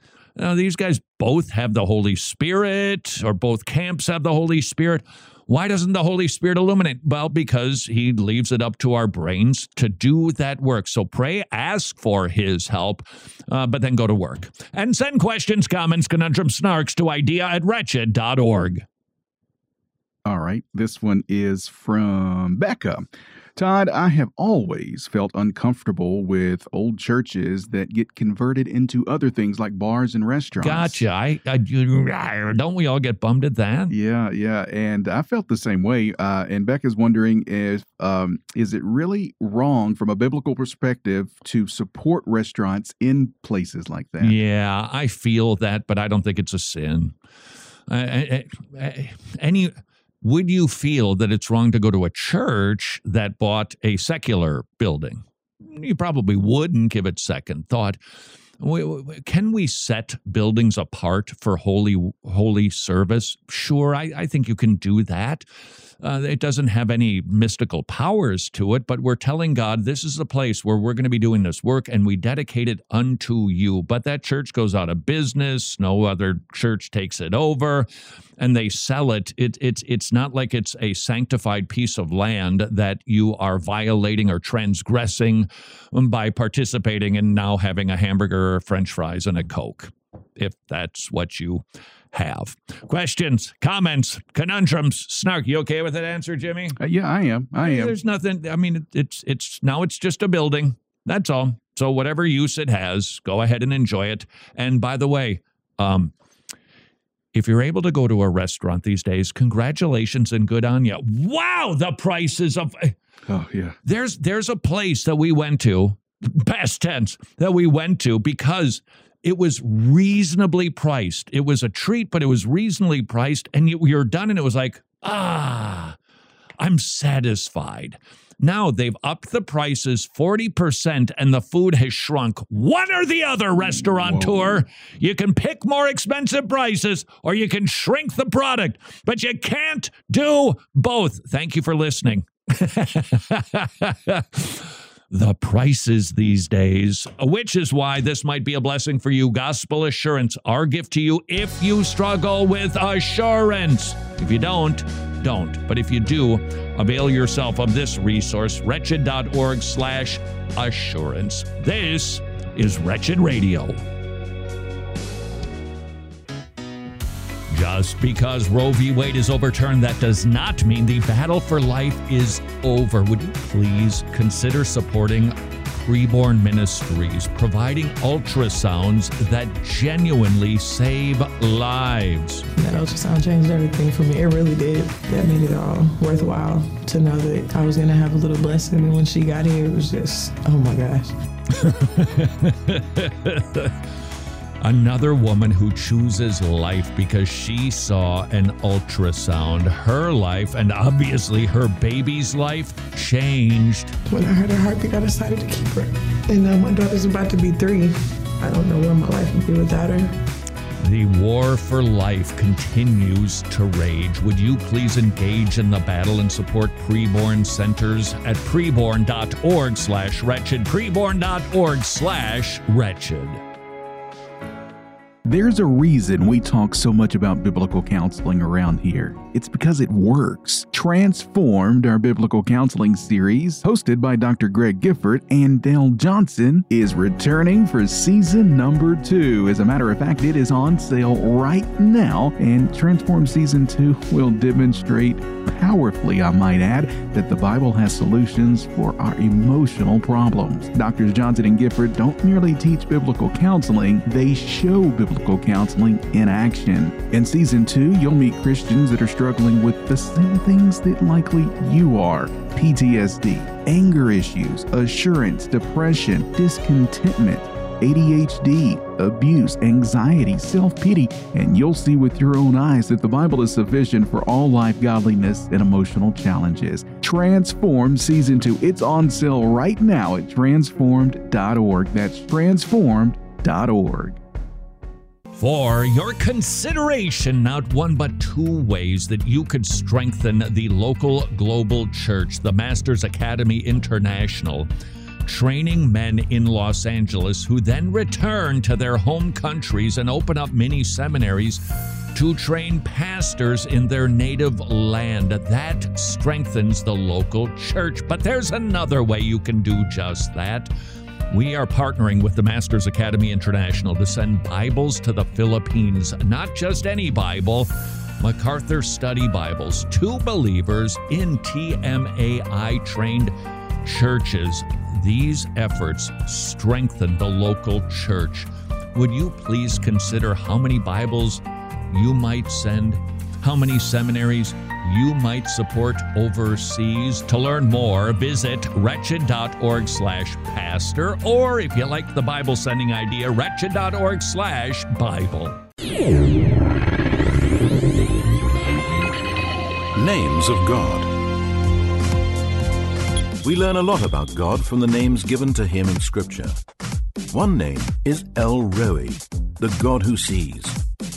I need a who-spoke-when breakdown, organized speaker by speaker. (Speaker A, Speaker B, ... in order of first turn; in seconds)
Speaker A: 0.4-18.8, 30.6-33.9, 44.2-47.2, 47.9-58.0, 58.6-65.5, 66.0-77.9, 78.4-96.8, 97.6-106.1, 107.3-113.0, 113.8-126.0, 126.6-163.8, 167.5-182.5, 191.5-193.8, 194.6-203.9, 210.8-223.4, 285.4-294.7, 295.2-301.6, 302.1-310.7, 311.3-345.6
Speaker B: 20.2-31.0, 33.9-44.4, 96.8-98.0, 113.3-113.8, 133.6-134.6, 225.2-284.2
Speaker C: 182.6-191.2, 204.1-210.1
Speaker D: 349.9-351.1, 353.4-356.6, 357.3-360.8